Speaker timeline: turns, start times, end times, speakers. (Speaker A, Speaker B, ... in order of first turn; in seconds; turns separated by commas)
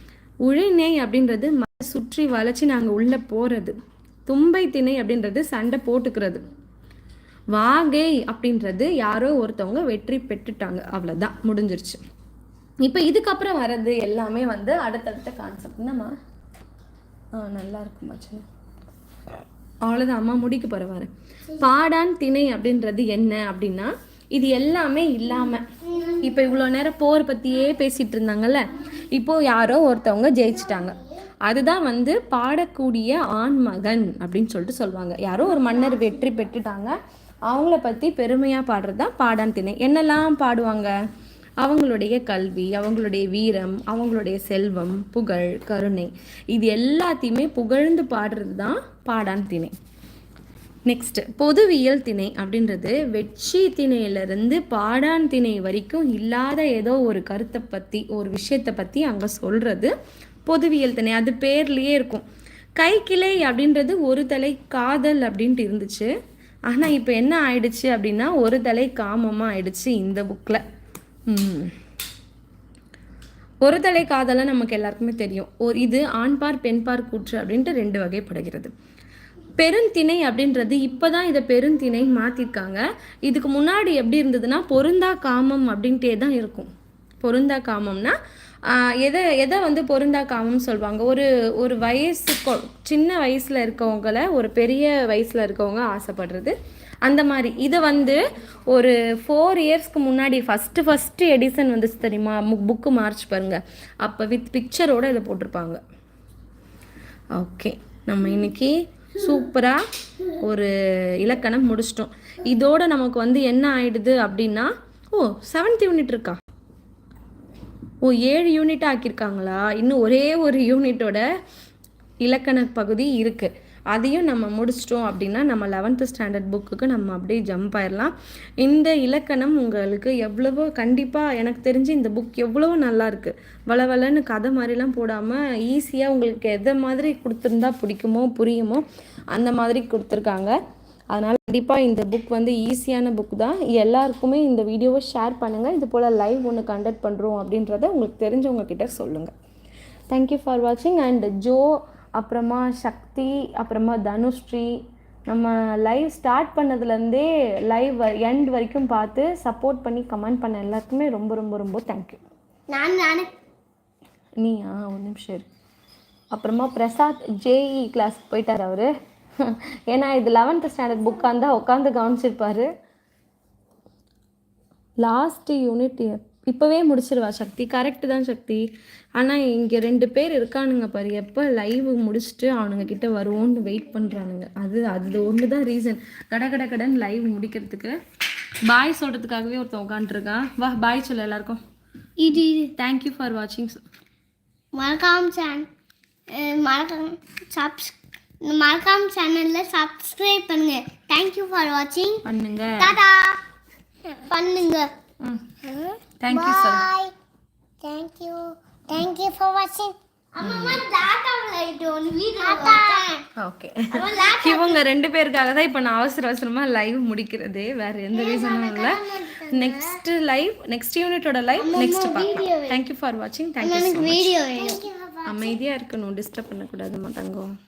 Speaker A: 0.5-3.8, Speaker A: 4.3-6.4, Speaker A: 7.5-12.0, Speaker A: 12.8-16.1, Speaker A: 17.4-18.4, Speaker A: 19.9-37.0, Speaker A: 37.5-40.9, Speaker A: 41.6-49.7, Speaker A: 50.9-59.9, Speaker A: 60.5-62.2, Speaker A: 62.8-66.1, Speaker A: 66.7-70.6, Speaker A: 71.3-71.7, Speaker A: 73.6-78.7, Speaker A: 79.6-86.7, Speaker A: 87.2-88.1, Speaker A: 88.7-105.8, Speaker A: 107.3-109.8, Speaker A: 110.4-116.4, Speaker A: 118.0-121.2, Speaker A: 122.2-140.5, Speaker A: 141.1-149.3, Speaker A: 150.1-154.7, Speaker A: 155.3-162.2, Speaker B: 162.7-163.3, Speaker A: 164.4-165.5, Speaker A: 166.3-172.7, Speaker A: 175.0-178.6, Speaker A: 179.2-188.0, Speaker A: 188.7-191.6, Speaker B: 192.2-192.5, Speaker A: 192.3-193.8, Speaker B: 194.8-195.7, Speaker B: 196.3-202.2, Speaker A: 202.2-203.0, Speaker B: 202.8-203.4, Speaker B: 204.2-204.9, Speaker A: 205.2-205.6, Speaker B: 205.6-207.1, Speaker A: 206.2-206.9, Speaker B: 207.8-213.2, Speaker A: 210.4-210.8, Speaker A: 213.4-224.4, Speaker B: 213.9-214.8, Speaker B: 218.1-220.0, Speaker B: 221.6-222.8, Speaker B: 223.6-225.6, Speaker A: 225.2-227.5